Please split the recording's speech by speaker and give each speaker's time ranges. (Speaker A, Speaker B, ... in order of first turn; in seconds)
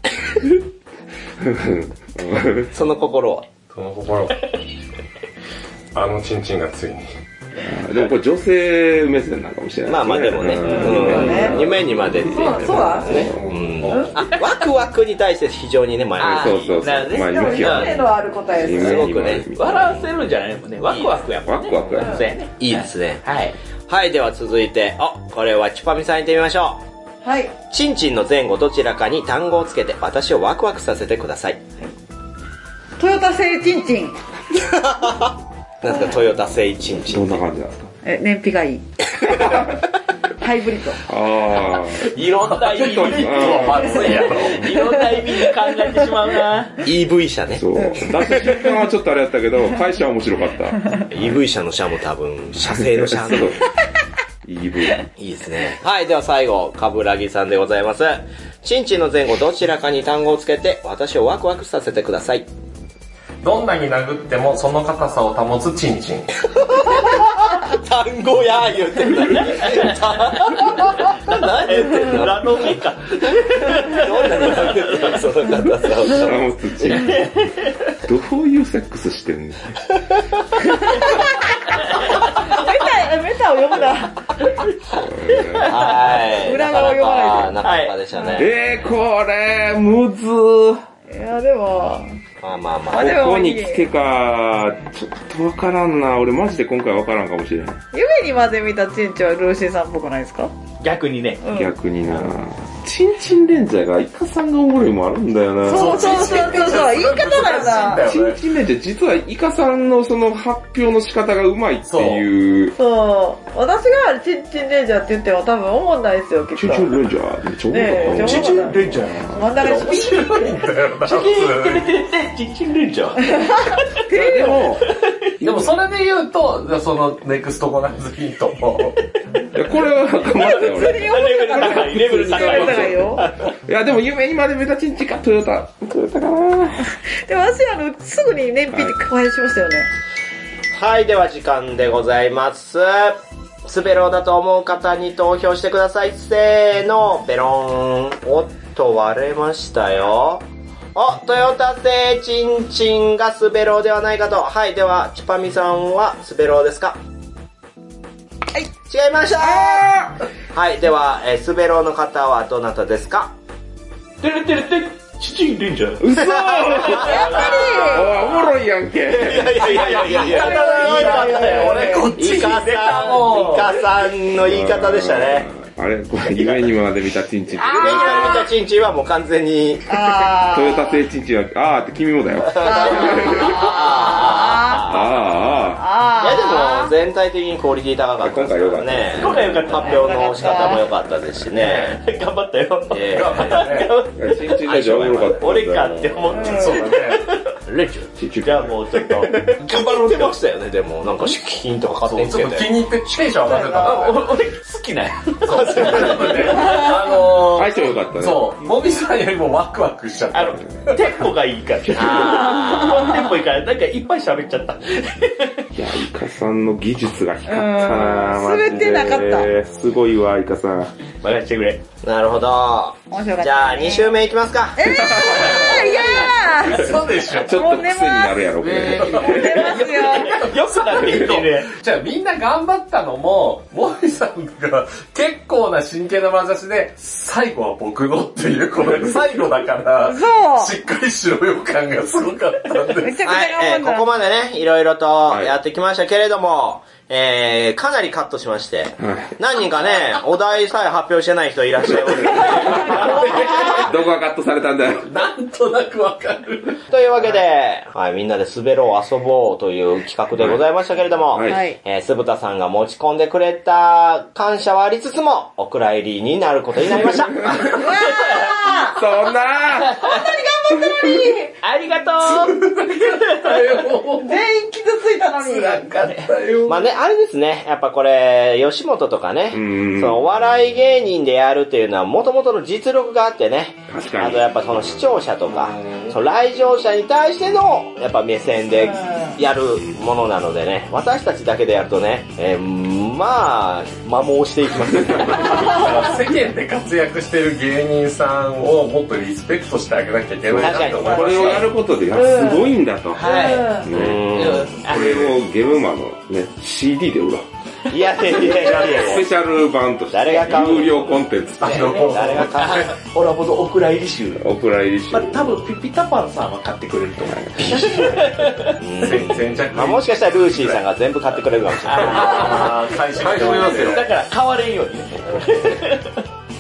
Speaker A: 1.4-2.7, 7.6-14.1, 16.2-20.1, 21.4-22.2, 37.1-37.9, 41.1-44.6, 47.6-51.0, 52.7-53.7, 54.4-55.1, 76.0-77.5, 78.0-79.7, 84.9-85.8, 88.3-90.8, 92.9-97.8, 101.5-106.7, 108.0-112.8, 116.5-119.5, 124.1-124.9, 125.4-125.7, 129.5-136.9, 159.4-160.2, 166.0-169.8, 174.4-178.5, 180.5-183.8, 184.8-185.9, 188.2-189.7, 194.2-196.5, 198.2-198.7, 207.5-208.6, 215.7-220.9, 224.9-225.6, 227.3-229.8, 249.0-249.3, 253.6-255.1, 260.4-260.6, 261.3-261.7, 267.1-267.8, 268.6-270.0, 270.7-271.4, 279.5-280.2, 283.9-285.0, 300.5-307.5, 308.7-312.1, 314.4-315.5, 317.2-318.3
Speaker B: 2.7-3.5, 9.9-16.9, 18.6-19.6, 20.9-21.2, 21.9-23.2, 23.9-26.8, 27.7-31.6, 34.5-37.4, 46.8-48.6, 51.1-53.6, 55.2-62.5, 66.5-72.7, 73.7-76.4, 85.6-88.5, 92.4-93.3, 140.7-150.4, 150.9-157.0, 158.8-159.9, 160.5-163.3, 166.1-167.6, 168.2-168.5, 169.1-175.5, 177.6-180.1, 182.6-185.0, 186.2-192.0, 192.9-193.7, 194.7-195.4, 199.3-202.8, 205.5-206.6, 211.9-213.2, 222.0-225.3, 243.2-253.7, 256.9-267.9, 276.7-295.9, 300.6-301.6, 303.9-304.8, 307.9-309.3, 310.1-311.1, 312.0-312.9, 318.8-322.7
Speaker C: 3.7-4.4, 5.9-7.1, 42.2-44.7, 63.4-66.3, 105.7-108.4, 111.8-112.2, 119.6-121.9, 125.4-129.0, 169.7-173.8, 193.0-193.9, 196.4-197.3, 202.1-204.3, 205.4-211.0, 225.3-227.6, 228.6-243.3, 252.7-253.6, 255.1-256.8, 272.2-274.4, 276.1-276.8, 295.5-301.6, 311.6-312.9, 318.9-320.8, 321.9-324.1
Speaker D: 10.8-11.6, 12.2-13.3, 17.2-19.1, 27.2-27.5, 33.0-34.2, 38.0-39.6, 40.4-41.0, 43.9-45.2, 47.8-48.1, 80.7-81.5, 82.1-84.3, 86.1-87.6, 91.1-92.2, 92.9-93.9, 97.9-100.5, 101.4-101.7, 105.7-108.0, 112.7-117.0, 117.7-120.6, 123.3-124.7, 130.3-133.2, 136.9-139.9, 167.0-168.2, 170.0-172.2, 179.9-181.0, 182.7-185.0, 185.8-186.9, 189.8-190.8, 196.3-196.8, 203.3-204.1, 212.1-213.1, 217.5-219.5, 223.1-224.2, 224.8-228.5, 229.0-230.5, 240.1-240.7, 243.0-244.1, 252.6-253.9, 261.4-261.8, 267.7-269.1, 270.0-271.6, 274.2-276.1, 301.0-302.7, 303.2-303.9
Speaker E: 10.9-11.4, 13.9-14.2, 16.2-18.0, 19.6-23.6, 42.2-46.8, 69.5-75.2, 76.8-77.8, 85.3-85.8, 87.6-87.9, 100.8-101.4, 118.0-119.2, 121.0-124.0, 124.8-125.3, 130.3-133.5, 164.2-168.0, 189.2-190.8, 191.5-200.3, 203.8-206.9, 210.3-215.6, 221.2-221.8, 225.3-226.3, 229.5-231.7, 252.4-253.8, 255.1-256.7, 267.9-268.6, 269.8-270.2, 271.6-274.1, 275.4-276.5, 303.1-305.3, 311.6-314.5, 315.1-318.8, 321.9-326.2